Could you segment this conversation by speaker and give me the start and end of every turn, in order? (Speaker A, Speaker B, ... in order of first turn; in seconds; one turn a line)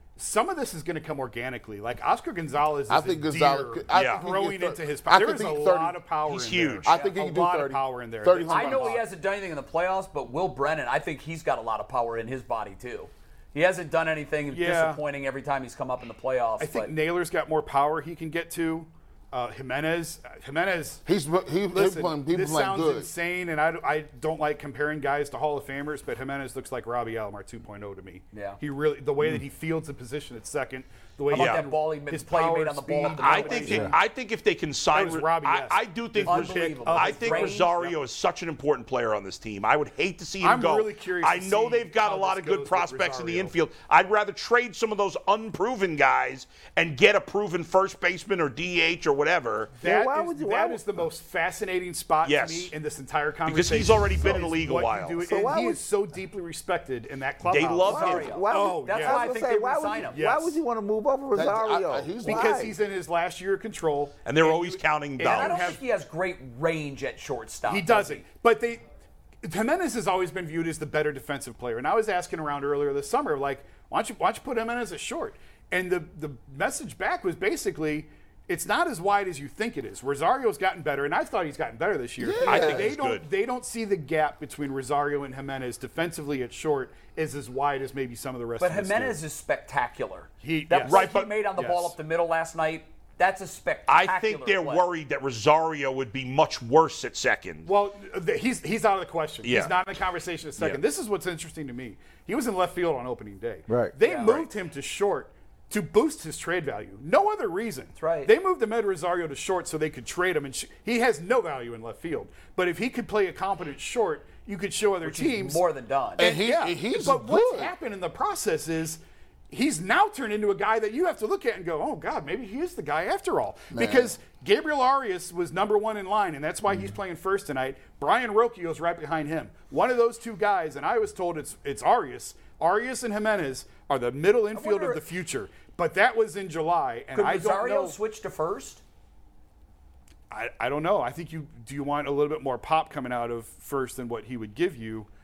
Speaker A: 0.2-9.0
Speaker B: 2.9-6.0
Speaker C: 3.9-4.2
Speaker C: 6.3-6.9
Speaker B: 6.9-9.0
Speaker D: 6.9-7.2
Speaker D: 8.5-16.9
Speaker A: 14.5-15.0
Speaker A: 16.6-21.0
Speaker B: 21.1-23.1
Speaker A: 21.7-34.0
Speaker D: 28.3-28.6
Speaker D: 31.3-33.9
Speaker C: 31.3-31.6
Speaker C: 33.1-49.7
Speaker A: 34.9-37.9
Speaker D: 36.2-37.9
Speaker A: 40.4-43.5
Speaker A: 49.7-59.3
Speaker E: 49.8-51.0
Speaker C: 52.2-52.7
Speaker C: 53.5-55.3
Speaker E: 55.3-55.8
Speaker C: 57.5-58.4
Speaker D: 57.9-60.3
Speaker E: 57.9-62.8
Speaker A: 60.1-60.6
Speaker B: 61.3-62.7
Speaker A: 62.2-65.8
Speaker C: 64.2-65.8
Speaker D: 65.2-68.3
Speaker A: 67.7-68.8
Speaker A: 69.4-89.2
Speaker B: 82.2-82.9
Speaker C: 82.5-83.3
Speaker D: 88.6-94.9
Speaker A: 90.4-91.9
Speaker C: 90.8-91.3
Speaker C: 93.9-97.7
Speaker A: 97.7-115.6
Speaker C: 99.4-99.8
Speaker E: 103.7-104.0
Speaker D: 104.0-104.5
Speaker D: 108.0-108.3
Speaker D: 115.0-116.3
Speaker B: 116.2-117.7
Speaker A: 116.2-138.0
Speaker B: 123.7-124.2
Speaker D: 134.5-135.0
Speaker D: 137.1-138.8
Speaker A: 140.3-145.1